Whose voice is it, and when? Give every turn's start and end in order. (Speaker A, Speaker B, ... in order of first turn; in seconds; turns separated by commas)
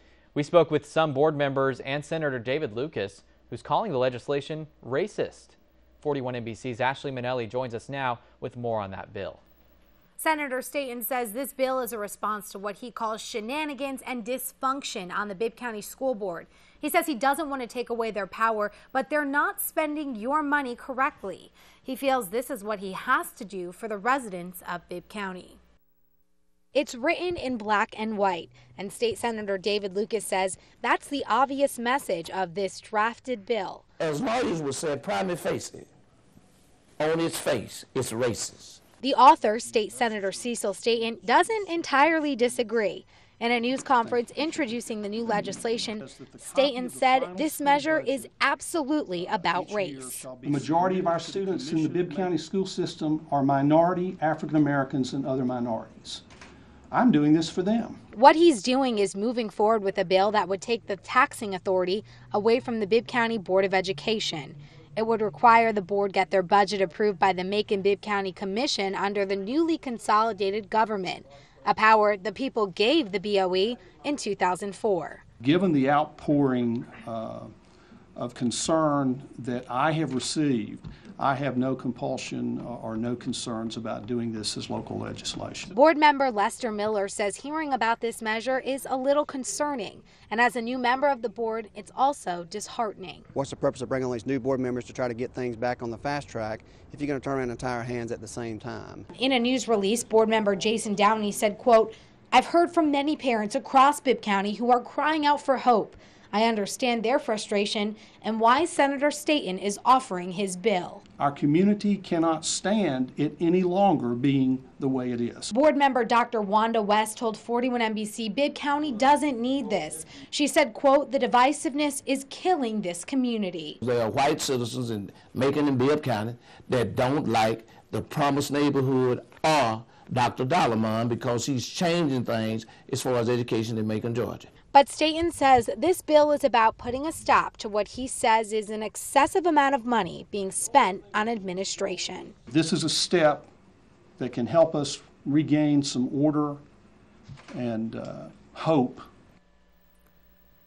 Speaker A: 0.3-9.4, Speaker B: 10.2-25.6, Speaker B: 26.7-33.8, Speaker C: 34.0-35.9, Speaker C: 37.0-38.8, Speaker B: 39.0-50.3, Speaker D: 44.0-44.9, Speaker D: 45.8-48.3, Speaker D: 49.1-56.2, Speaker D: 56.9-58.0, Speaker B: 58.1-75.2, Speaker D: 75.4-77.5, Speaker D: 78.2-85.7, Speaker B: 85.7-93.2, Speaker E: 93.3-99.0, Speaker B: 99.1-111.0, Speaker D: 111.2-115.5, Speaker B: 115.5-123.8, Speaker C: 123.8-134.5, Speaker B: 134.7-142.3, Speaker D: 142.5-143.4, Speaker D: 144.2-146.6, Speaker D: 147.5-149.0